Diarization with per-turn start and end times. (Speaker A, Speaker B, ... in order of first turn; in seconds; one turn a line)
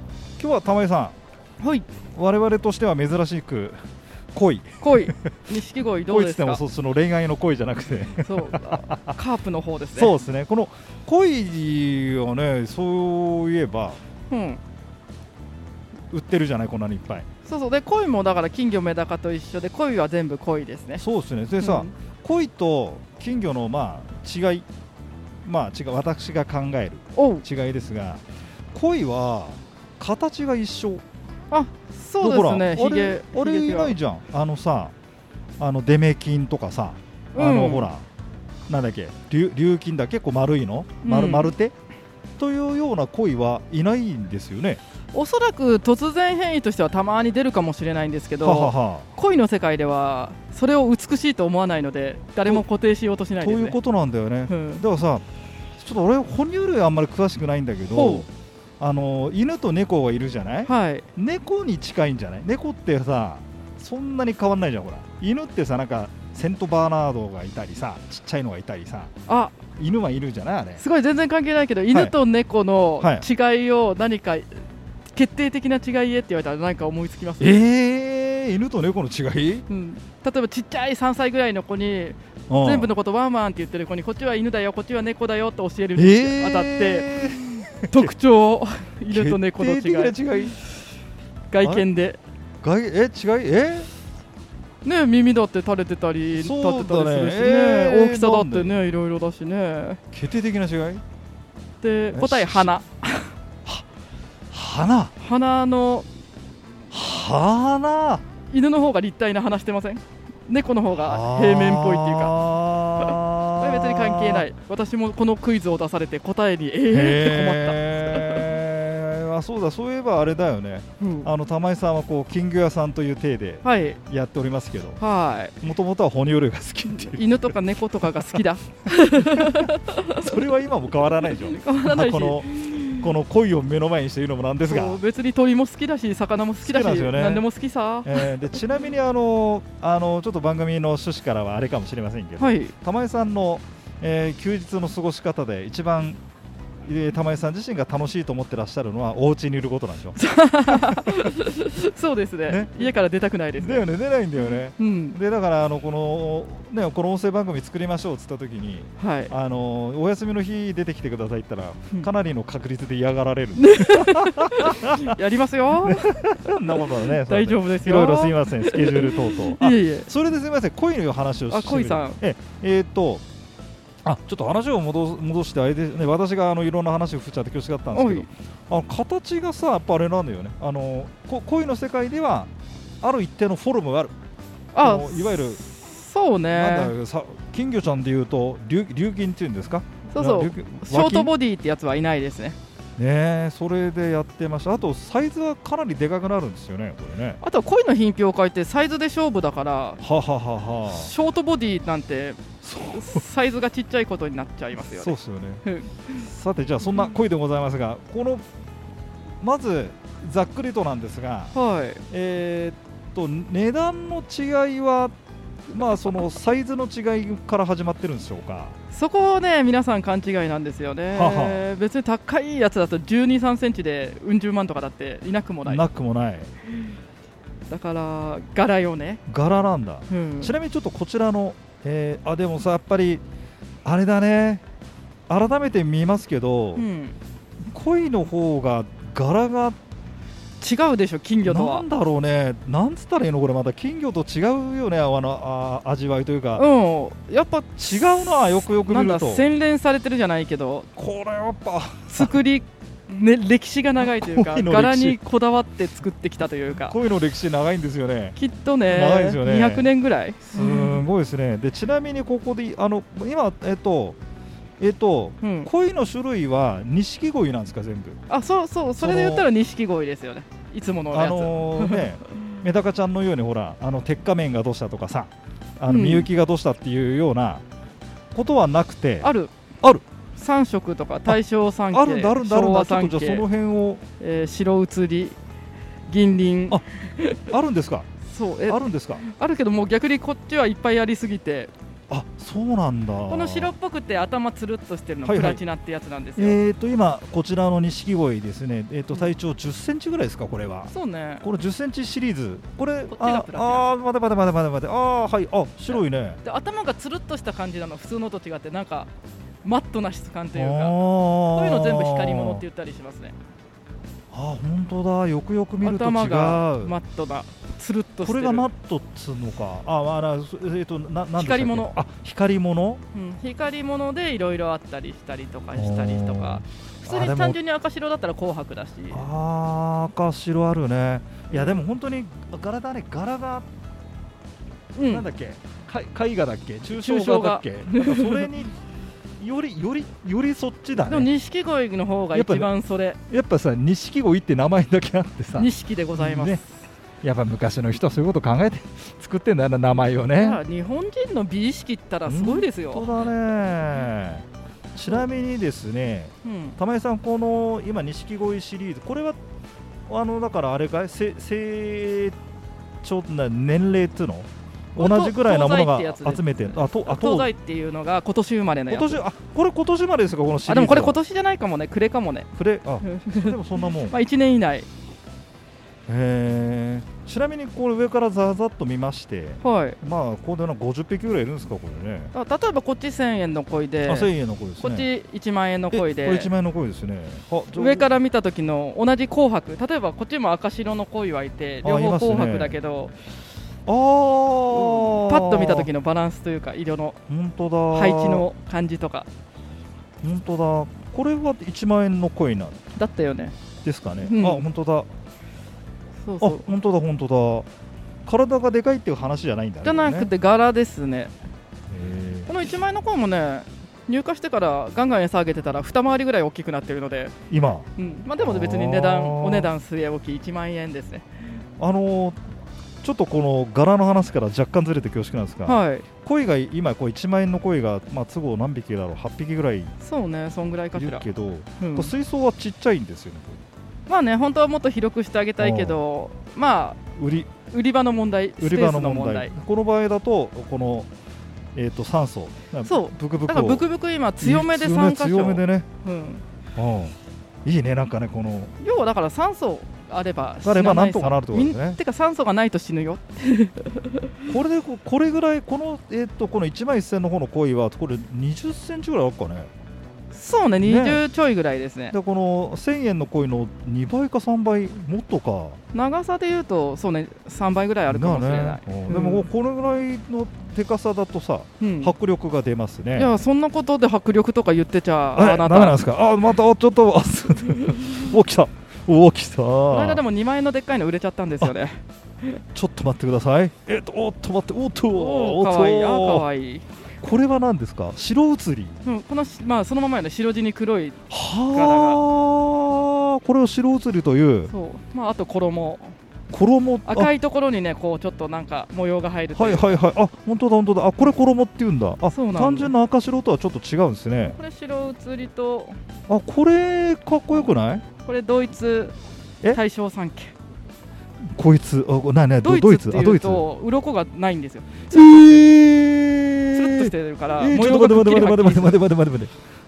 Speaker A: 0.4-1.1
Speaker B: 1.6-1.9
Speaker A: 2.1-3.8
Speaker A: 4.3-5.1
Speaker B: 4.8-6.6
Speaker A: 6.1-9.2
Speaker B: 8.2-10.1
Speaker A: 9.9-14.0
Speaker B: 14.3-14.6
Speaker A: 16.1-17.3
Speaker B: 17.4-21.0
Speaker A: 21.0-24.7
Speaker B: 21.6-21.9
Speaker A: 25.4-31.0
Speaker B: 27.1-27.4
Speaker B: 31.5-34.0
Speaker A: 32.2-34.9
Speaker A: 35.6-38.0
Speaker B: 37.4-37.9
Speaker A: 38.7-41.7
Speaker B: 41.0-41.5
Speaker A: 42.4-44.8
Speaker B: 45.1-53.8
Speaker A: 48.4-49.1
Speaker A: 53.4-55.2
Speaker B: 54.5-54.8
Speaker A: 55.8-58.3
Speaker B: 57.9-58.3
Speaker A: 58.8-69.1
Speaker B: 60.6-61.1
Speaker B: 69.3-69.6
Speaker A: 69.8-70.8
Speaker B: 70.8-74.5
Speaker A: 73.0-73.2
Speaker B: 75.1-77.6
Speaker A: 77.4-79.7
Speaker B: 79.7-87.3
Speaker A: 82.5-82.9
Speaker A: 86.0-88.1
Speaker B: 87.9-90.7
Speaker A: 89.1-90.6
Speaker B: 91.5-92.2
Speaker A: 92.6-93.9
Speaker B: 94.8-100.0
Speaker A: 96.4-98.8
Speaker A: 100.1-101.0
Speaker B: 101.8-103.3
Speaker A: 102.1-102.7
Speaker A: 104.5-105.1
Speaker B: 105.2-106.1
Speaker A: 106.9-108.2
Speaker B: 108.5-112.3
Speaker A: 111.0-114.5
Speaker B: 113.0-118.5
Speaker A: 116.9-125.0
Speaker B: 121.0-121.3
Speaker B: 123.6-124.0
Speaker B: 125.0-125.6
Speaker A: 125.6-127.6
Speaker B: 126.9-130.4
Speaker A: 129.1-135.0
Speaker B: 131.3-133.1
Speaker B: 134.6-138.6
Speaker A: 136.6-137.4
Speaker A: 138.0-146.2
Speaker B: 142.4-142.7
Speaker A: 146.8-151.3
Speaker B: 150.2-153.9
Speaker A: 152.5-152.9
Speaker A: 153.6-165.2
Speaker B: 154.5-155.2
Speaker B: 159.0-159.3
Speaker B: 163.6-166.1
Speaker A: 165.8-173.2
Speaker B: 166.7-170.1
Speaker B: 171.5-172.2
Speaker A: 174.0-182.5
Speaker B: 177.9-178.3
Speaker A: 183.0-184.1
Speaker B: 184.7-186.9
Speaker A: 184.8-185.6
Speaker A: 186.5-191.3
Speaker B: 190.1-192.6
Speaker A: 193.0-197.4
Speaker B: 197.4-200.0
Speaker A: 200.0-201.1
Speaker B: 200.9-202.4
Speaker A: 202.6-203.2
Speaker B: 202.9-206.3
Speaker A: 204.8-208.4
Speaker A: 209.4-211.5
Speaker B: 211.5-212.0
Speaker A: 212.1-215.2
Speaker A: 215.7-218.8
Speaker B: 218.9-225.8
Speaker A: 221.1-221.7
Speaker A: 225.7-226.5
Speaker B: 227.7-229.2
Speaker A: 229.3-233.2
Speaker B: 230.1-230.5
Speaker A: 233.8-234.6
Speaker A: 235.3-236.8
Speaker B: 236.8-237.2
Speaker A: 237.7-239.8
Speaker B: 240.6-241.9
Speaker A: 241.5-246.6
Speaker B: 246.6-250.9
Speaker A: 247.8-249.5
Speaker A: 251.0-252.4
Speaker B: 252.1-257.0
Speaker A: 254.0-255.2
Speaker A: 256.9-259.9
Speaker B: 258.4-261.0
Speaker A: 260.5-264.2
Speaker A: 264.8-268.2
Speaker B: 265.4-265.7
Speaker B: 268.3-272.0
Speaker A: 269.0-269.5
Speaker A: 271.1-277.6
Speaker B: 275.9-276.3
Speaker A: 278.3-279.3
Speaker B: 279.2-279.5
Speaker B: 280.4-283.4
Speaker A: 281.9-284.0
Speaker B: 284.2-285.4
Speaker B: 286.1-287.4
Speaker A: 287.5-288.1
Speaker B: 288.3-291.7
Speaker A: 288.7-289.2
Speaker A: 292.1-293.7
Speaker B: 293.3-296.6
Speaker A: 295.2-295.6
Speaker A: 296.4-300.9
Speaker B: 300.9-301.4
Speaker A: 301.4-306.4
Speaker B: 303.1-303.9
Speaker B: 305.9-309.1
Speaker B: 309.6-313.4
Speaker A: 310.5-312.6
Speaker A: 314.3-316.9
Speaker B: 315.8-318.7
Speaker A: 318.2-323.0
Speaker B: 321.4-322.0
Speaker B: 323.1-329.2
Speaker A: 325.8-327.6
Speaker A: 329.1-333.7
Speaker B: 331.5-331.8
Speaker B: 335.0-335.3
Speaker A: 335.1-338.8
Speaker B: 336.9-338.5
Speaker A: 339.4-341.3
Speaker B: 341.0-343.2
Speaker A: 342.3-342.7
Speaker A: 343.3-346.6
Speaker B: 345.6-346.7
Speaker A: 347.2-350.6
Speaker B: 350.4-353.1
Speaker A: 352.3-359.4
Speaker B: 356.4-356.8
Speaker A: 360.1-362.4
Speaker A: 363.0-367.5
Speaker B: 365.0-369.2
Speaker A: 368.9-371.2
Speaker B: 370.7-372.5
Speaker A: 372.6-374.2
Speaker B: 373.0-374.9
Speaker A: 376.1-382.3
Speaker B: 379.6-380.0
Speaker B: 382.3-386.5
Speaker A: 384.1-385.1
Speaker A: 385.9-388.1
Speaker B: 387.8-393.1
Speaker A: 391.8-392.8
Speaker A: 393.9-395.9
Speaker B: 394.7-397.2
Speaker A: 397.3-398.5
Speaker B: 397.9-399.3
Speaker A: 400.2-402.8
Speaker B: 403.0-403.6
Speaker A: 403.8-405.1
Speaker B: 404.2-404.6
Speaker B: 406.3-406.7
Speaker A: 406.4-407.7
Speaker A: 408.3-410.3
Speaker B: 409.8-411.3
Speaker A: 411.9-412.6
Speaker B: 412.5-417.4
Speaker A: 417.5-419.7
Speaker B: 417.9-421.3
Speaker A: 421.8-422.4
Speaker A: 423.0-429.9
Speaker B: 425.7-426.1
Speaker B: 430.0-431.2
Speaker A: 430.9-433.6
Speaker B: 431.8-432.1
Speaker B: 434.1-437.0
Speaker A: 435.6-436.0
Speaker A: 437.2-437.5
Speaker B: 437.7-439.5
Speaker A: 438.6-441.1
Speaker A: 441.8-443.9
Speaker B: 442.9-446.4
Speaker A: 444.4-445.9
Speaker A: 446.8-448.7
Speaker B: 448.8-454.3
Speaker A: 450.6-452.0
Speaker A: 454.5-459.7
Speaker B: 460.3-462.1
Speaker A: 460.8-461.2
Speaker A: 462.1-465.8
Speaker B: 465.9-469.5
Speaker A: 468.1-473.3
Speaker B: 471.8-472.1
Speaker B: 473.1-476.0
Speaker A: 475.4-480.2
Speaker B: 479.9-482.0
Speaker A: 482.7-486.5
Speaker B: 485.1-486.9
Speaker A: 487.2-489.0
Speaker B: 489.0-492.2
Speaker A: 491.3-494.7
Speaker B: 494.7-496.1
Speaker A: 496.5-497.3
Speaker B: 497.1-500.0
Speaker A: 499.5-504.6
Speaker B: 502.3-502.9
Speaker B: 504.4-506.0
Speaker A: 506.3-508.0
Speaker B: 508.2-509.1
Speaker B: 509.7-510.5
Speaker A: 511.5-513.7
Speaker B: 512.6-515.7
Speaker A: 515.1-519.5
Speaker B: 516.7-519.0